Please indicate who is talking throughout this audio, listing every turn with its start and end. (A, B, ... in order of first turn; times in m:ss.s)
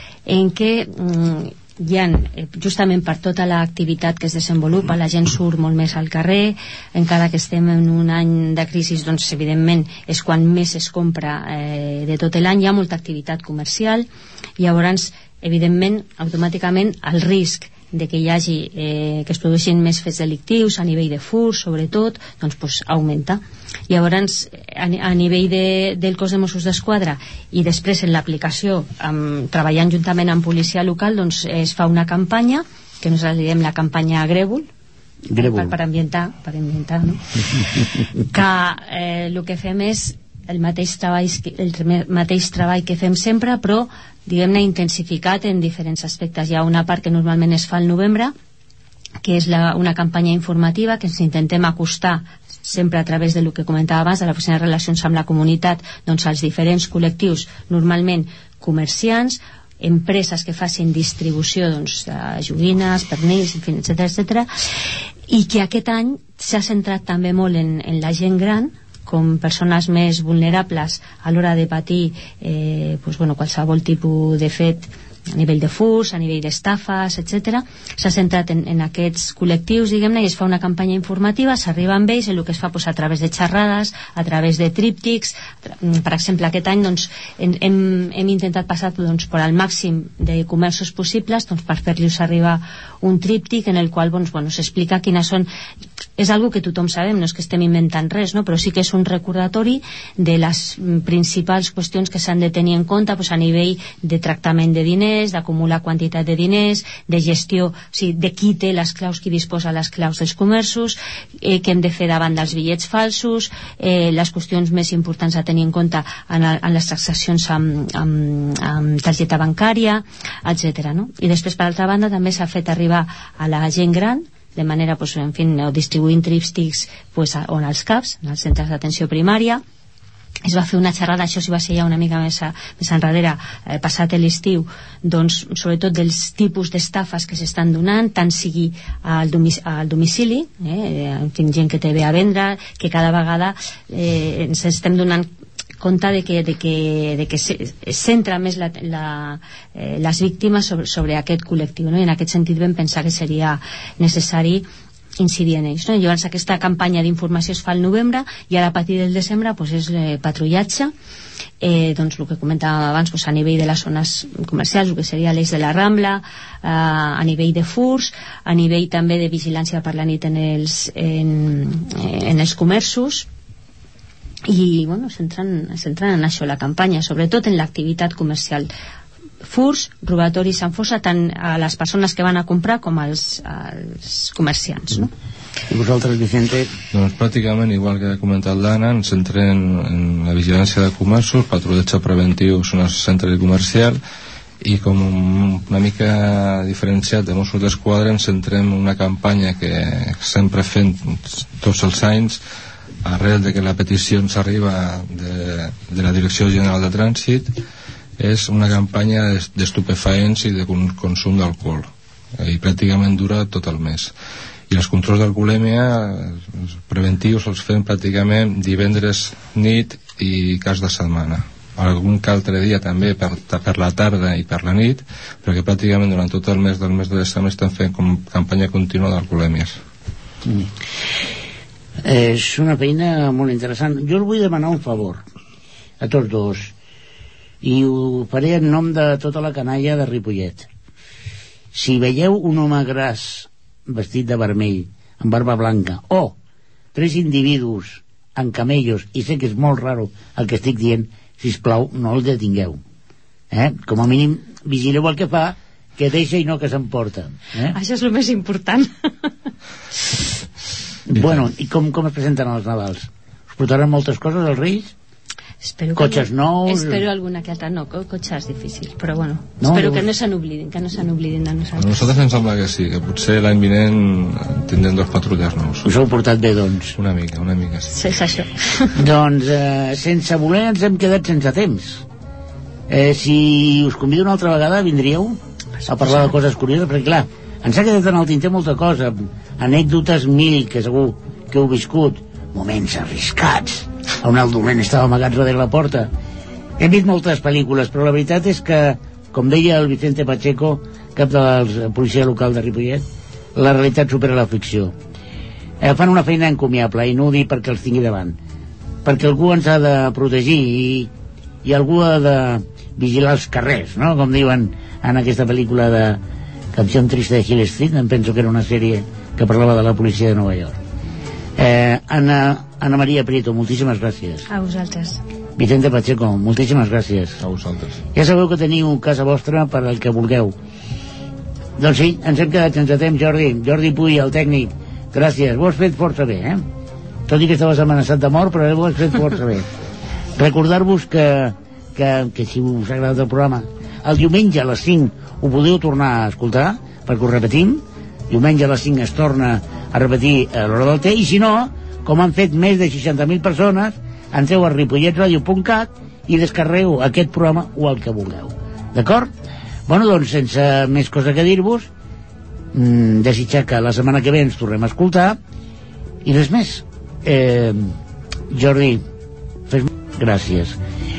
0:00.2-0:14.1 A
0:14.6-0:34.7 A
0:35.3-0:35.8 B
0:35.4-0:48.3 A
0:49.2-1:04.5 A
1:05.3-1:35.5 A
1:36.2-2:09.6 A
2:10.4-2:25.3 A
2:25.8-2:34.6 A
2:35.2-2:40.9 A
2:41.6-2:53.3 A
2:54.5-2:58.7 A
2:59.4-3:05.1 A
3:05.7-3:06.7 B
3:06.9-3:14.0 C
3:14.6-3:22.4 C
3:23.0-3:27.5 C
3:28.2-3:34.1 C
3:34.7-3:49.8 C
3:50.4-3:50.7 B
3:52.0-3:55.2 B
3:56.0-3:56.7 B
3:57.6-4:00.7 B
4:01.7-4:06.4 B
4:06.9-4:12.8 B
4:13.5-4:17.8 B
4:17.7-4:19.3 A
4:21.0-4:24.9 B
4:25.6-4:32.2 A
4:26.0-4:27.0 B
4:29.6-4:30.0 B
4:31.8-4:35.9 C
4:35.8-4:37.0 B
4:37.0-4:38.0 C
4:37.9-4:39.0 A
4:38.9-4:42.0 B
4:42.9-4:56.1 B
4:45.8-4:46.2 A
4:56.8-5:04.9 B
5:05.8-5:08.4 B
5:09.0-5:11.1 B
5:11.6-5:16.2 B
5:16.7-5:20.8 B
5:21.6-5:24.5 B
5:24.5-5:25.2 A
5:25.6-5:27.4 B
5:27.4-5:28.0 C
5:28.1-5:30.5 B
5:31.8-5:36.6 B
5:37.3-5:39.7 B
5:40.4-5:59.3 B
5:59.9-6:01.9 B
6:02.7-6:05.4 B
6:06.2-6:08.0 B
6:08.5-6:09.0 B
6:09.7-6:10.8 B